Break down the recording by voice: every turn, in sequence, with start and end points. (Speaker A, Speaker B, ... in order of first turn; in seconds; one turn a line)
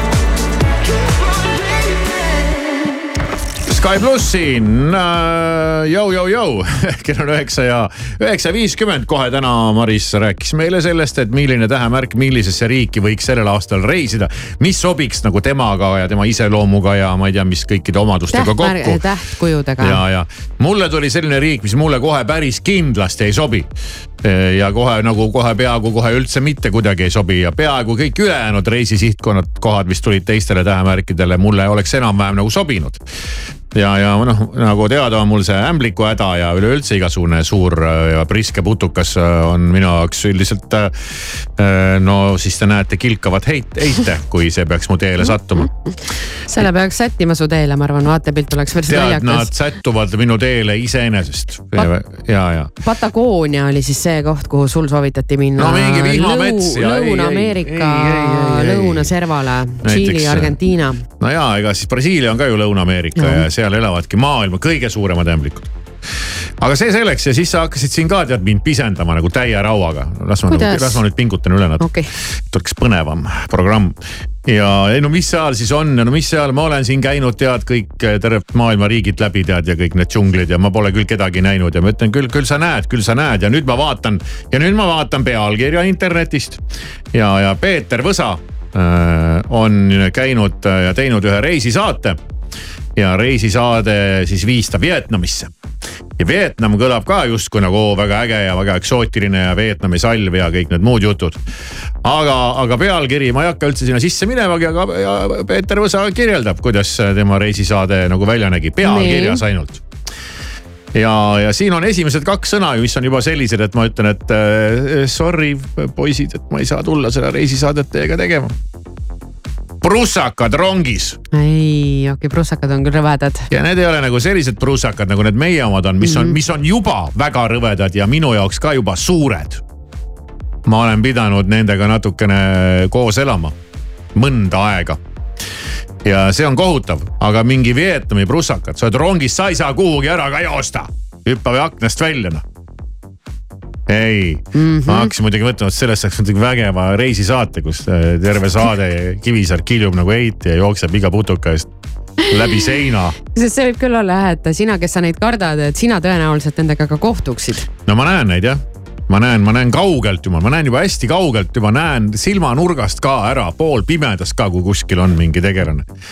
Speaker A: 3.7-19.0
Speaker B: 18.3-20.0
Speaker A: 19.8-23.7
Speaker A: 24.2-33.0
Speaker A: 33.7-40.9
Speaker A: 41.6-45.7
Speaker B: 45.3-45.6
Speaker B: 46.5-49.5
Speaker A: 48.9-52.7
Speaker B: 52.8-61.0
Speaker A: 55.6-59.1
Speaker A: 59.8-60.6
Speaker A: 61.2-65.7
Speaker B: 63.2-63.5
Speaker A: 66.6-71.9
Speaker B: 70.5-71.0
Speaker B: 71.8-72.1
Speaker A: 72.5-86.6
Speaker A: 87.1-92.2
Speaker A: 93.0-95.5
Speaker A: 96.2-101.4
Speaker A: 102.0-109.8
Speaker B: 108.8-109.4
Speaker A: 111.0-118.5
Speaker A: 119.8-121.2
Speaker B: 121.3-123.5
Speaker A: 123.5-129.6
Speaker B: 126.0-126.4
Speaker A: 130.7-133.5
Speaker A: 134.2-135.0
Speaker A: 136.0-142.4
Speaker A: 143.9-151.7
Speaker B: 144.6-145.1
Speaker A: 152.3-153.2
Speaker B: 153.3-157.7
Speaker A: 157.9-165.8